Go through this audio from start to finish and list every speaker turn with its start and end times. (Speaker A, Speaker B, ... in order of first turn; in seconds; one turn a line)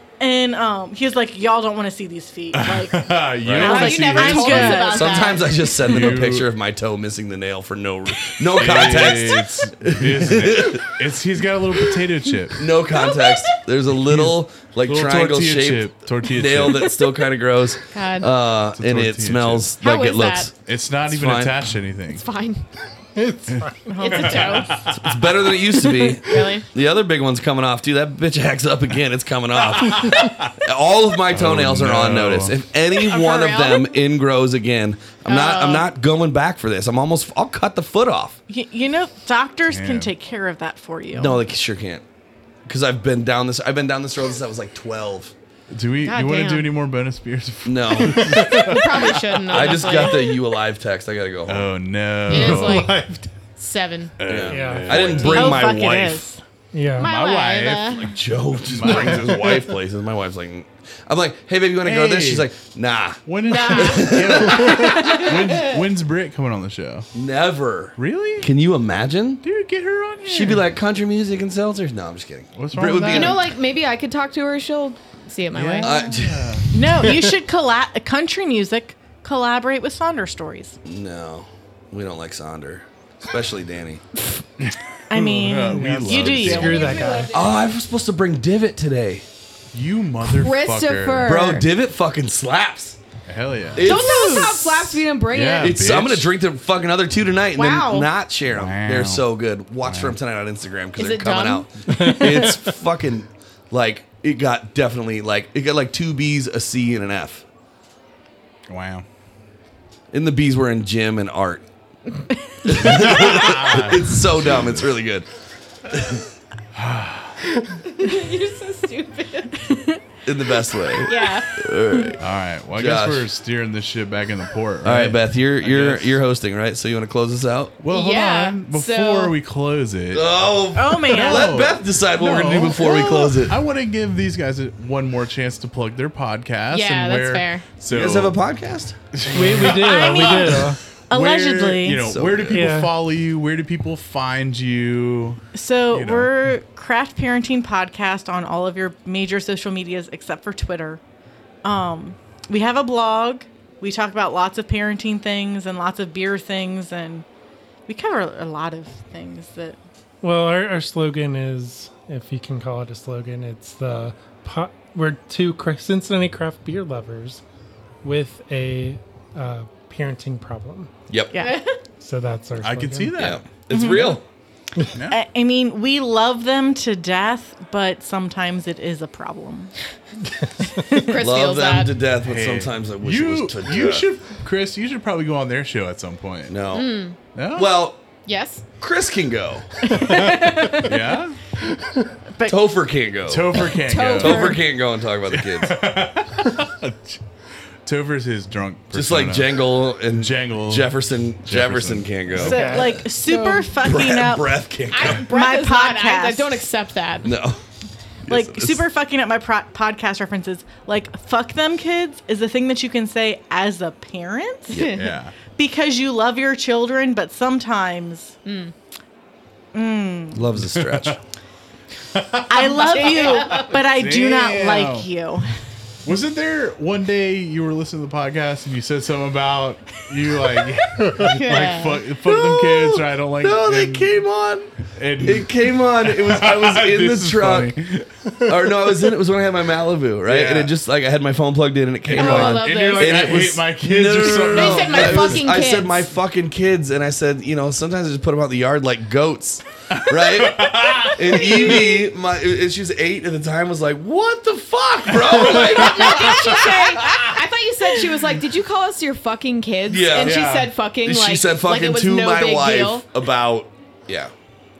Speaker A: 0.2-5.4
Speaker B: 2.5-4.9
Speaker C: 3.4-3.8
Speaker D: 3.6-5.8
Speaker C: 4.8-10.8
Speaker B: 5.8-6.5
Speaker B: 8.5-12.8
Speaker C: 12.6-20.5
Speaker B: 14.1-16.9
Speaker D: 17.9-18.3
Speaker B: 18.7-19.7
Speaker D: 19.8-20.5
Speaker B: 20.5-22.2
Speaker C: 21.1-21.6
Speaker D: 22.1-22.6
Speaker E: 23.1-24.1
Speaker B: 23.5-25.6
Speaker A: 23.9-24.7
Speaker D: 24.0-24.9
Speaker C: 24.9-38.4
Speaker D: 25.9-26.6
Speaker B: 29.8-30.5
Speaker B: 31.3-32.6
Speaker D: 33.0-34.0
Speaker D: 35.2-35.9
Speaker A: 38.5-41.4
Speaker B: 39.7-40.1
Speaker C: 41.1-42.0
Speaker C: 42.6-45.3
Speaker B: 45.7-49.9
Speaker D: 46.0-46.7
Speaker C: 47.6-48.5
Speaker E: 48.0-48.7
Speaker D: 48.5-50.4
Speaker C: 49.5-51.7
Speaker B: 51.5-52.9
Speaker D: 52.3-52.9
Speaker E: 52.3-53.3
Speaker D: 53.6-54.1
Speaker B: 54.2-55.6
Speaker C: 54.2-56.2
Speaker E: 54.4-55.0
Speaker D: 55.2-55.7
Speaker A: 55.2-56.4
Speaker E: 56.7-57.1
Speaker B: 57.0-58.0
Speaker D: 57.0-58.0
Speaker C: 57.8-65.2
Speaker B: 58.6-59.7
Speaker B: 61.8-62.5
Speaker B: 63.2-67.1
Speaker D: 63.4-65.8
Speaker C: 67.1-69.4
Speaker B: 68.0-68.5
Speaker B: 69.4-70.6
Speaker C: 70.2-73.5
Speaker B: 72.5-73.4
Speaker D: 73.0-76.2
Speaker B: 75.5-76.7
Speaker C: 75.8-76.5
Speaker A: 76.7-80.8
Speaker C: 80.8-84.0
Speaker B: 84.6-87.0
Speaker A: 85.1-87.1
Speaker E: 85.2-87.3
Speaker D: 86.5-87.7
Speaker C: 87.3-89.2
Speaker B: 89.7-91.3
Speaker D: 90.2-91.6
Speaker C: 91.2-93.0
Speaker B: 93.3-94.0
Speaker C: 93.7-95.0
Speaker D: 93.8-95.8
Speaker A: 93.8-94.6
Speaker B: 95.3-96.3
Speaker C: 95.6-107.5
Speaker D: 97.5-98.1
Speaker B: 98.5-99.2
Speaker B: 99.8-100.2
Speaker D: 101.0-101.7
Speaker E: 101.9-102.7
Speaker B: 108.7-109.0
Speaker C: 110.1-111.6
Speaker C: 112.6-115.3
Speaker B: 112.8-114.8
Speaker C: 115.8-116.2
Speaker B: 116.7-117.4
Speaker D: 117.7-119.9
Speaker C: 120.2-122.2
Speaker D: 120.9-121.7
Speaker B: 122.2-126.2
Speaker C: 122.7-123.2
Speaker C: 124.8-127.8
Speaker B: 127.8-130.3
Speaker D: 127.9-129.3
Speaker C: 130.1-133.6
Speaker A: 130.7-131.6
Speaker B: 131.1-138.4
Speaker D: 136.7-137.7
Speaker C: 137.9-138.9
Speaker B: 139.1-145.4
Speaker E: 139.3-140.8
Speaker A: 139.7-142.0
Speaker C: 142.1-142.7
Speaker E: 142.5-142.9
Speaker A: 145.5-151.0
Speaker B: 145.9-146.3
Speaker A: 151.6-157.2
Speaker A: 157.9-159.8
Speaker E: 160.2-167.4
Speaker E: 168.0-170.9
Speaker C: 171.1-171.5
Speaker D: 171.3-171.8
Speaker E: 172.0-173.3
Speaker B: 172.6-173.5
Speaker C: 173.1-174.2
Speaker A: 173.7-174.2
Speaker B: 174.9-175.2
Speaker A: 175.1-179.7
Speaker A: 180.8-181.2
Speaker D: 180.9-181.9
Speaker C: 181.2-184.1
Speaker B: 182.2-186.6
Speaker C: 186.5-187.0
Speaker D: 186.7-187.2
Speaker B: 187.3-187.7
Speaker C: 187.5-188.0
Speaker D: 188.2-188.6
Speaker C: 188.8-189.7
Speaker E: 189.9-190.5
Speaker A: 189.9-191.0
Speaker B: 190.7-191.4
Speaker A: 192.3-192.7
Speaker C: 192.4-195.8
Speaker B: 193.3-194.6
Speaker D: 193.8-194.6
Speaker A: 194.2-194.5
Speaker B: 195.3-197.2
Speaker B: 197.8-200.9
Speaker C: 198.9-203.0
Speaker B: 201.4-202.5
Speaker A: 202.3-206.7
Speaker E: 202.4-203.0
Speaker D: 203.1-203.7
Speaker C: 203.8-205.2
Speaker D: 204.9-207.4
Speaker C: 207.2-207.6
Speaker C: 208.2-208.8
Speaker A: 208.2-214.9
Speaker D: 214.7-215.1
Speaker B: 214.9-215.3
Speaker A: 215.6-218.3
Speaker D: 218.4-218.7
Speaker A: 219.7-220.5
Speaker C: 220.3-221.2
Speaker B: 220.7-221.2
Speaker B: 222.1-225.1
Speaker A: 222.5-225.5
Speaker D: 222.7-223.8
Speaker B: 226.0-234.1
Speaker D: 231.2-232.0
Speaker C: 232.2-237.7
Speaker B: 234.9-238.4
Speaker C: 238.4-256.8
Speaker B: 240.2-240.7
Speaker B: 242.0-245.5
Speaker D: 242.1-243.4
Speaker D: 244.4-246.1
Speaker B: 249.9-252.0
Speaker B: 255.1-257.3
Speaker D: 255.5-263.0
Speaker C: 259.9-260.5
Speaker B: 260.2-260.7
Speaker C: 261.0-264.3